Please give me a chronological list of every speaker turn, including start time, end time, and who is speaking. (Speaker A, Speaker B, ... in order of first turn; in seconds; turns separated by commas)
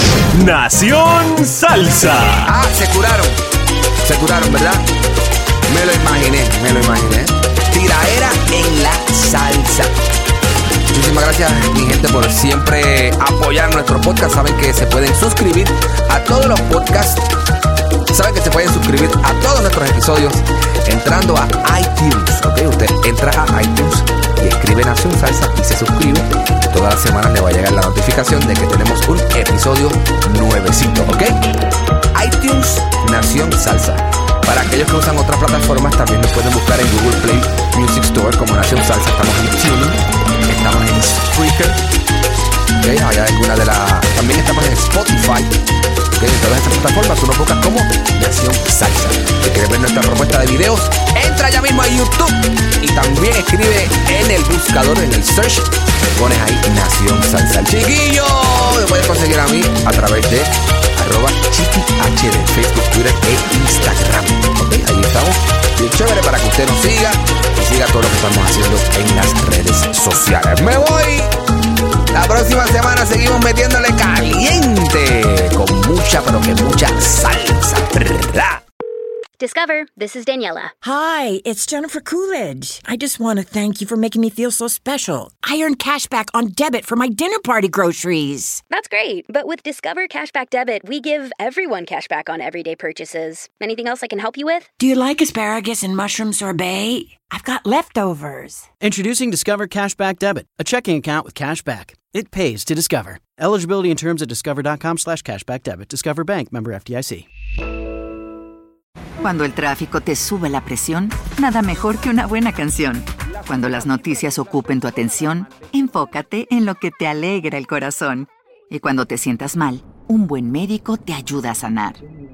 Speaker A: 0.3-2.5, Speaker B: 2.5-3.4, Speaker B: 4.0-4.8, Speaker B: 5.7-9.9, Speaker B: 10.9-17.2, Speaker B: 18.1-31.3, Speaker B: 32.1-41.8, Speaker B: 42.8-45.5, Speaker B: 46.2-71.3, Speaker B: 72.1-78.6, Speaker C: 79.4-80.7, Speaker D: 80.8-88.6, Speaker C: 88.7-94.7, Speaker D: 94.8-98.7, Speaker E: 98.8-107.3, Speaker F: 109.2-122.0